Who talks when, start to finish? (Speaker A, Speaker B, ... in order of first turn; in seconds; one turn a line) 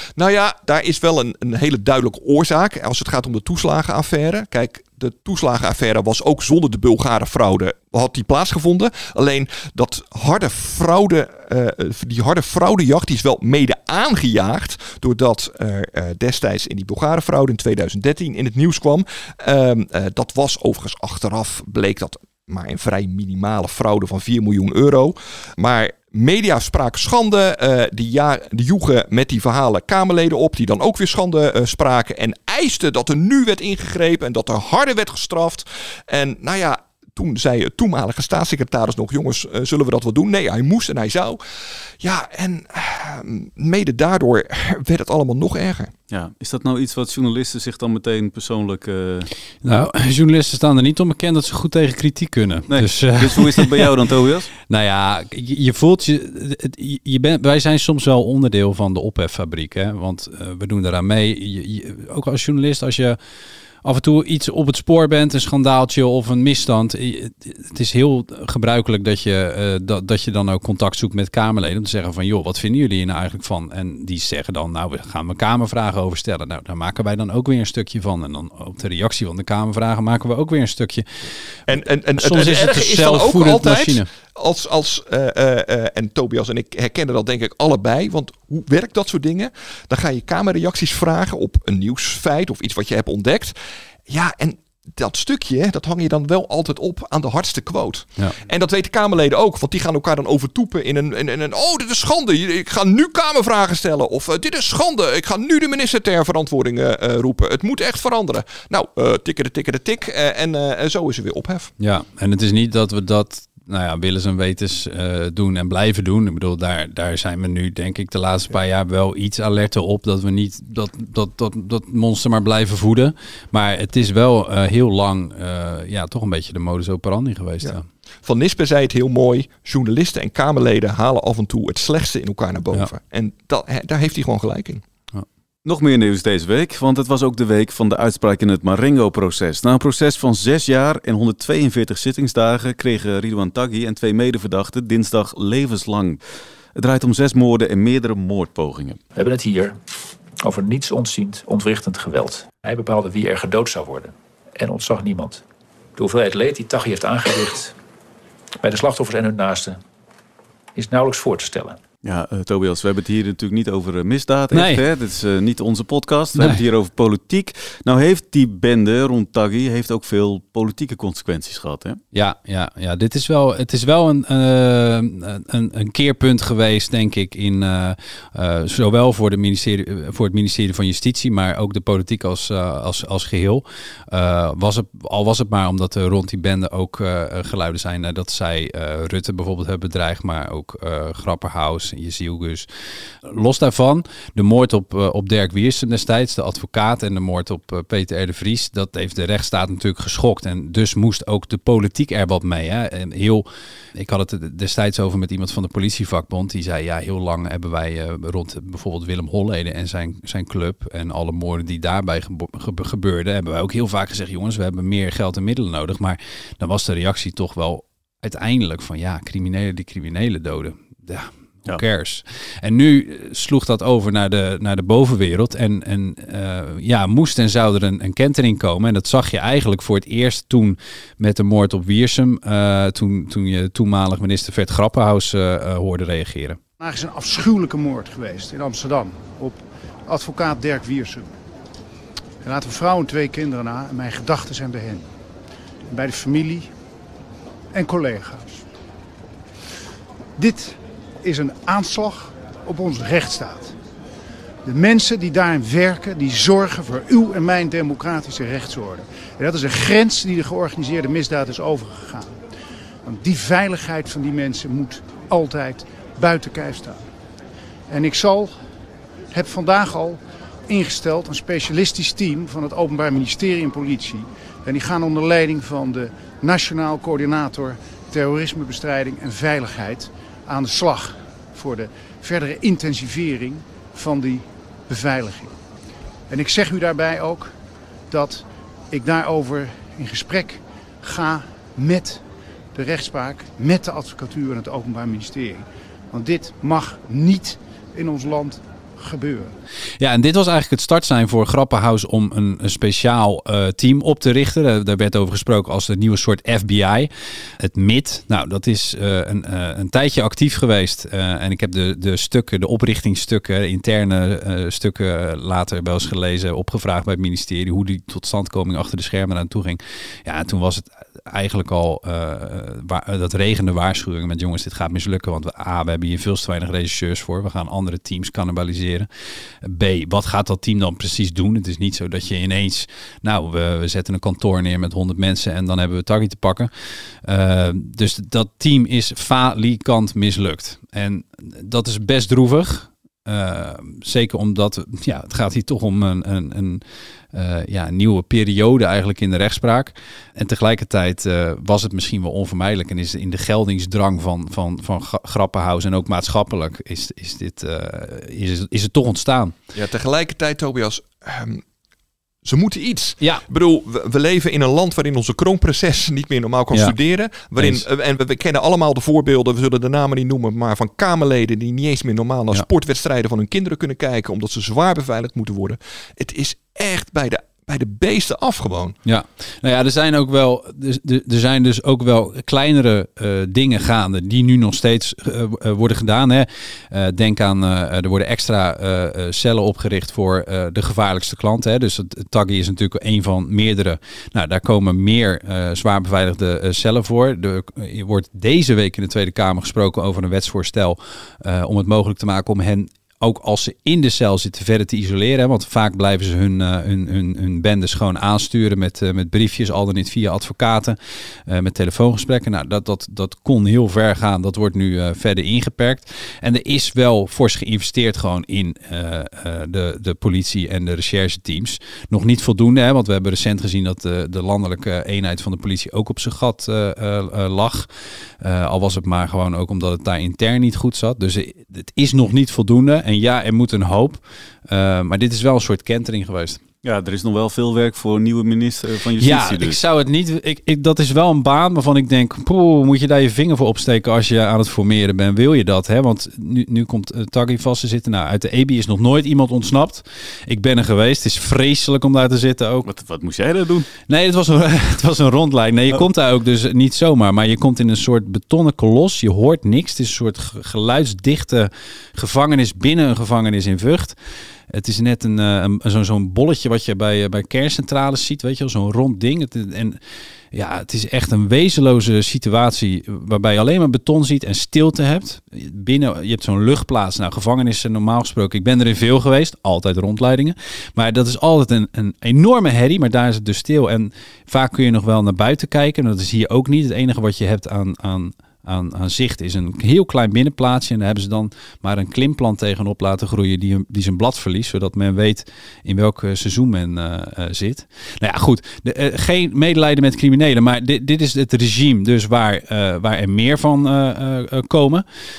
Speaker A: 0.1-41.4
Speaker A: 42.0-45.9
Speaker B: 46.1-49.3
Speaker C: 49.6-53.9
Speaker B: 52.7-54.5
Speaker C: 54.6-63.2
Speaker C: 63.8-81.0
Speaker A: 81.7-93.5
Speaker C: 82.2-84.1
Speaker A: 94.1-111.7
Speaker C: 111.8-127.8
Speaker A: 127.6-134.8
Speaker B: 135.6-146.2
Speaker B: 146.7-149.0
Speaker D: 149.1-149.8
Speaker D: 150.4-155.4
Speaker D: 156.0-157.7
Speaker D: 158.6-159.8
Speaker D: 160.7-161.8
Speaker B: 162.0-172.0
Speaker C: 164.5-164.8
Speaker C: 172.1-192.7
Speaker C: 193.2-236.6
Speaker E: 236.8-241.3
Speaker E: 242.4-245.1
Speaker E: 245.9-246.7
Speaker E: 247.7-248.6
Speaker E: 250.3-253.7
Speaker E: 254.6-262.4
Speaker E: 263.0-267.1
Speaker E: 267.9-268.6
Speaker E: 269.3-285.6
Speaker E: 286.3-287.5
Speaker E: 288.1-299.5
Speaker C: 300.0-329.1
Speaker C: 329.6-336.7
Speaker C: 337.2-359.6
Speaker A: 359.7-361.6
Speaker A: 362.4-378.9
Speaker C: 363.2-363.4
Speaker C: 367.5-367.8
Speaker C: 379.0-410.9
Speaker C: 411.5-436.6
Speaker B: 436.8-439.8
Speaker C: 439.2-452.9
Speaker B: 452.8-453.9
Speaker C: 454.1-464.1
Speaker C: 464.7-470.0
Speaker C: 470.5-505.0